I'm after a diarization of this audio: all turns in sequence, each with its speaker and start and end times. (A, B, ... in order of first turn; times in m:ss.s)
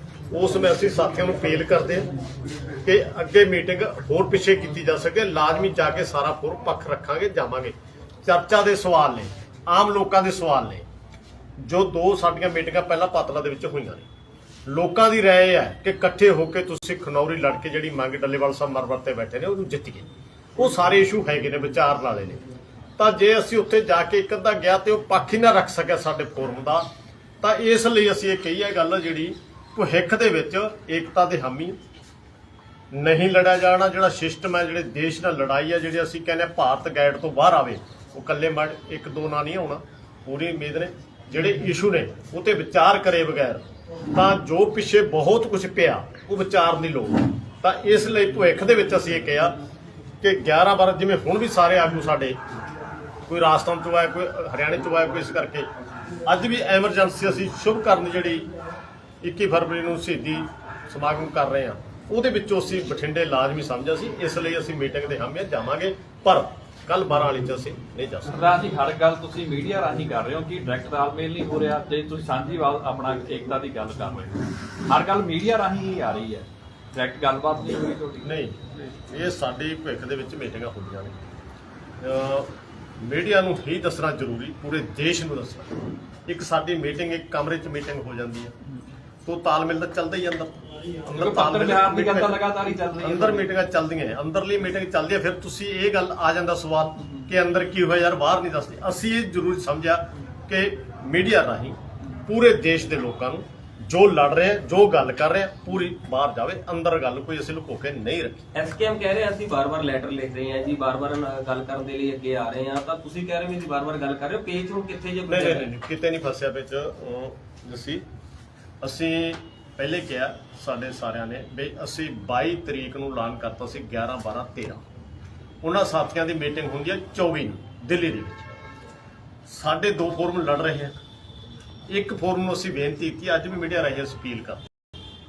0:00.3-0:02.1 A
0:02.8-0:07.7 A
0:08.2-0:10.8 A
0:11.6-0:14.1 A
0:14.7-0:22.4 A
0:23.0-0:26.8 A
0:27.4-0:31.8 A
0:32.9-0:49.6 A
0:50.2-0:52.4 A
0:53.3-0:55.7 A
0:56.3-0:58.5 A
0:59.2-1:08.4 A
1:08.3-1:18.3 B
1:18.2-1:21.2 A
1:22.0-1:25.7 A
1:26.3-1:28.5 A
1:29.2-1:32.4 A
1:31.1-1:33.5 B
1:33.0-1:48.5 A
1:48.5-1:55.7 C
1:55.3-1:58.0 A
1:58.8-2:04.8 A
2:05.6-2:08.5 A
2:09.5-2:10.9 A
2:11.9-2:14.6 A